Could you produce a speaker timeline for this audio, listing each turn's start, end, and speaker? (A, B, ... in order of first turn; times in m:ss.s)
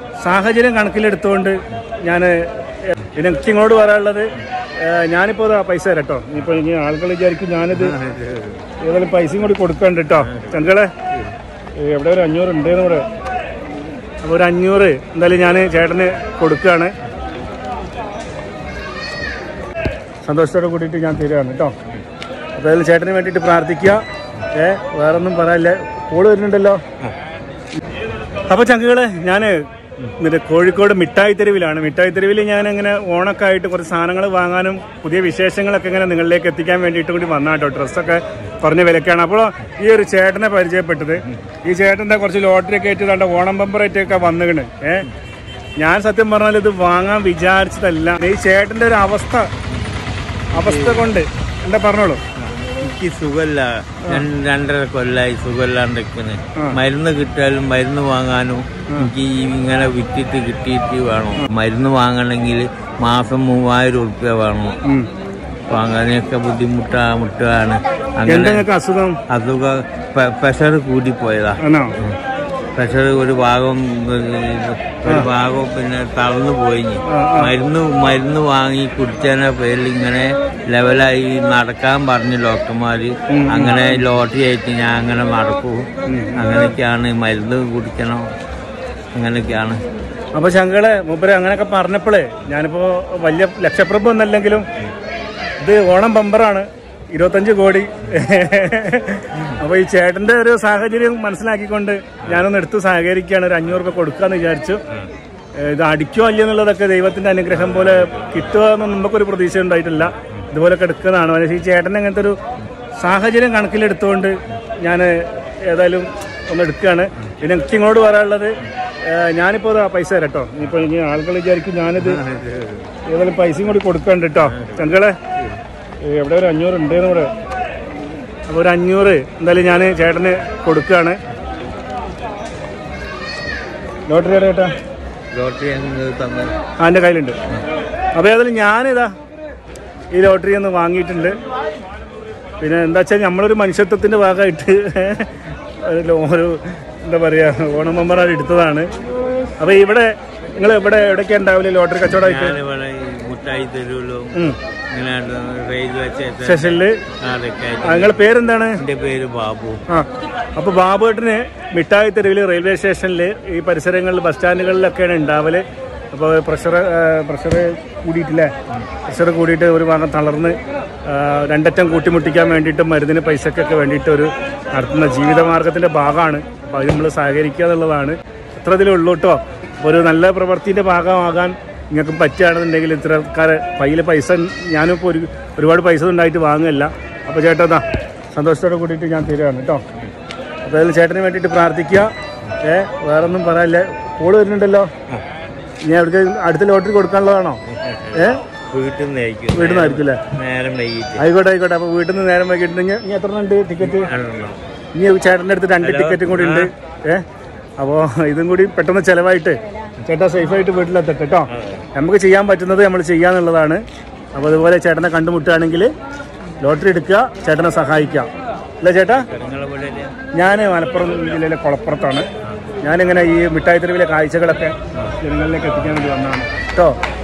0:00.2-0:07.9 A
0:07.7-0:08.6 B
0:08.8-0:10.9 A
0:10.1-0:10.6 B
0:11.8-0:13.1 A
0:14.2-0:16.9 A
0:20.2-0:21.7 A
0:22.6-0:26.8 A
0:28.5-0:45.1 A
0:45.8-0:49.5 A
0:50.5-0:52.2 A
0:50.6-0:51.1 B
0:52.6-1:04.8 B
1:05.7-1:08.7 B
1:08.3-1:09.2 A
1:09.3-1:12.2 B
1:11.6-1:12.0 A
1:12.8-1:28.3 B
1:17.1-1:17.5 A
1:23.3-1:24.0 A
1:26.1-1:26.7 A
1:29.2-1:29.8 B
1:30.4-1:34.7 A
1:35.6-1:44.8 A
1:45.6-1:52.4 A
1:47.5-1:48.4 B
1:50.1-1:50.4 B
1:53.0-2:02.2 A
2:02.0-2:02.9 B
2:03.1-2:05.2 A
2:04.4-2:05.6 B
2:06.0-2:07.3 A
2:08.5-2:11.2 A
2:14.1-2:14.7 A
2:15.3-2:16.6 B
2:16.8-2:17.4 A
2:18.2-2:19.1 A
2:20.1-2:21.4 A
2:22.6-2:28.9 A
2:29.6-2:32.6 A
2:32.2-2:39.8 B
2:36.4-2:37.0 A
2:37.8-2:38.8 A
2:39.9-2:48.5 A
2:49.1-3:09.8 A
3:10.6-3:12.1 A
3:12.6-3:14.9 A
3:15.9-3:17.6 A
3:17.7-3:21.2 B
3:18.1-3:18.4 A
3:19.5-3:20.3 A
3:21.2-3:24.1 A
3:23.8-3:24.6 B
3:25.0-3:27.2 A
3:25.8-3:26.7 B
3:27.8-3:33.8 A
3:31.5-3:31.9 B
3:34.4-3:35.9 A
3:36.6-3:38.3 A
3:38.8-3:39.3 A
3:39.1-3:40.2 B
3:40.3-3:42.3 A
3:42.8-3:47.0 A